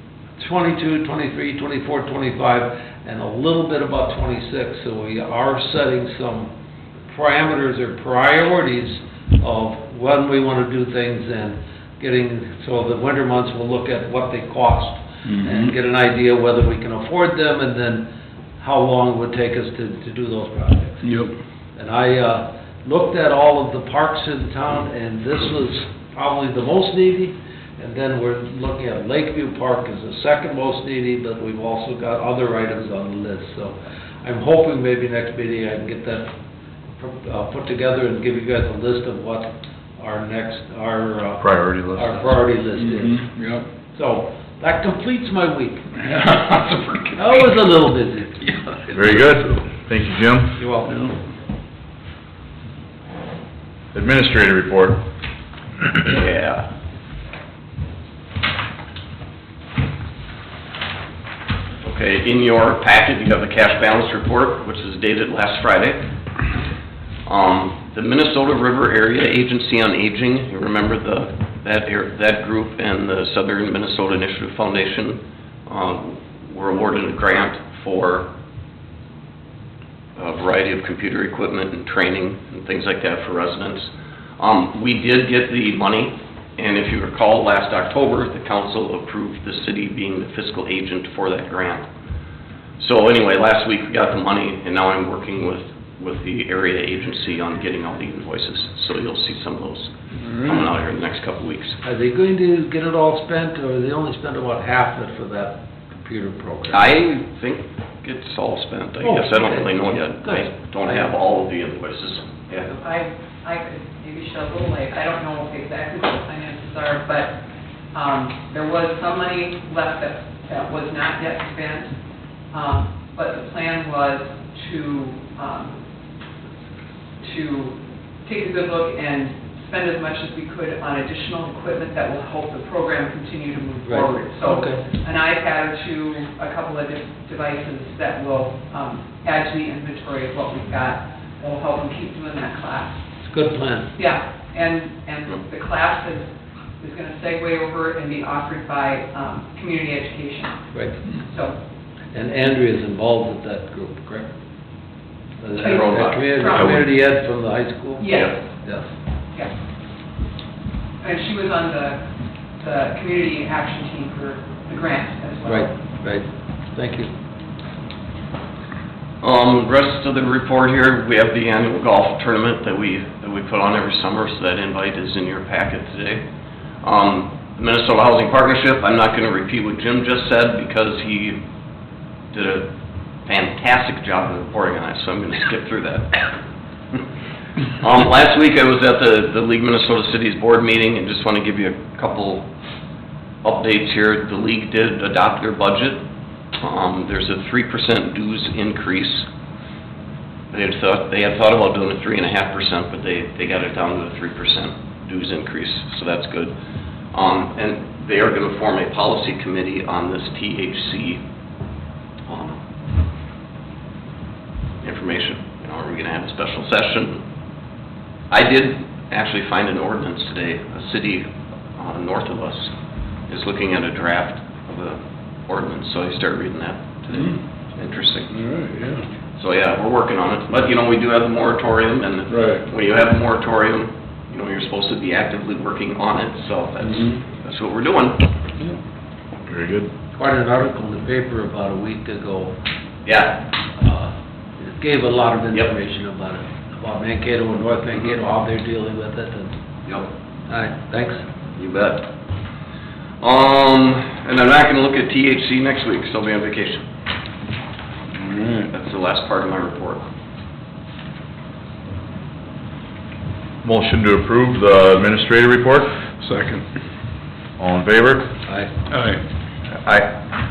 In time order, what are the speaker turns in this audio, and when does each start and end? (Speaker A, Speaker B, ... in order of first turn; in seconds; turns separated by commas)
Speaker A: 0.4-6.5, Speaker A: 7.1-21.1, Speaker B: 15.3-15.6, Speaker B: 21.0-21.4, Speaker A: 21.8-36.3, Speaker A: 36.9-43.3, Speaker C: 41.4-42.2, Speaker B: 42.8-43.7, Speaker A: 43.9-45.9, Speaker B: 46.0-47.2, Speaker A: 47.1-48.5, Speaker C: 48.9-50.7, Speaker A: 50.6-51.0, Speaker C: 53.9-55.0, Speaker D: 56.0-56.7, Speaker D: 61.8-66.1, Speaker D: 67.3-78.3, Speaker D: 80.2-91.9, Speaker D: 92.8-101.8, Speaker A: 101.8-106.8, Speaker D: 106.7-112.7, Speaker A: 109.0-111.1, Speaker E: 112.7-122.0, Speaker E: 122.5-125.8, Speaker E: 127.2-143.0, Speaker A: 133.9-134.8, Speaker A: 143.2-143.9, Speaker E: 144.0-146.3, Speaker E: 146.8-150.6, Speaker A: 150.7-151.0, Speaker E: 151.1-151.6, Speaker A: 152.1-154.3, Speaker A: 155.4-158.1, Speaker E: 155.6-156.8, Speaker D: 155.6-156.8, Speaker E: 158.0-158.4, Speaker A: 158.6-158.9, Speaker E: 161.0-165.7, Speaker A: 165.5-167.1, Speaker D: 169.2-176.2, Speaker D: 176.8-181.4, Speaker D: 182.3-182.7, Speaker D: 183.3-186.2, Speaker D: 187.8-192.5, Speaker D: 193.4-196.0, Speaker D: 196.6-199.3, Speaker D: 200.5-206.5, Speaker D: 207.1-211.2, Speaker D: 212.3-212.6, Speaker D: 214.8-217.2, Speaker D: 218.3-222.7, Speaker D: 223.3-228.3, Speaker B: 228.3-229.1, Speaker D: 229.4-238.3, Speaker B: 232.3-232.6, Speaker B: 236.9-237.2, Speaker C: 239.5-239.9, Speaker A: 240.1-242.6, Speaker D: 243.1-243.5, Speaker A: 243.8-249.6, Speaker A: 250.5-251.3, Speaker D: 251.6-252.1, Speaker D: 253.2-256.8, Speaker D: 258.3-260.1, Speaker C: 263.6-266.0, Speaker B: 266.2-266.7, Speaker C: 267.6-268.4, Speaker A: 268.5-268.7, Speaker B: 268.9-269.2, Speaker C: 269.7-270.2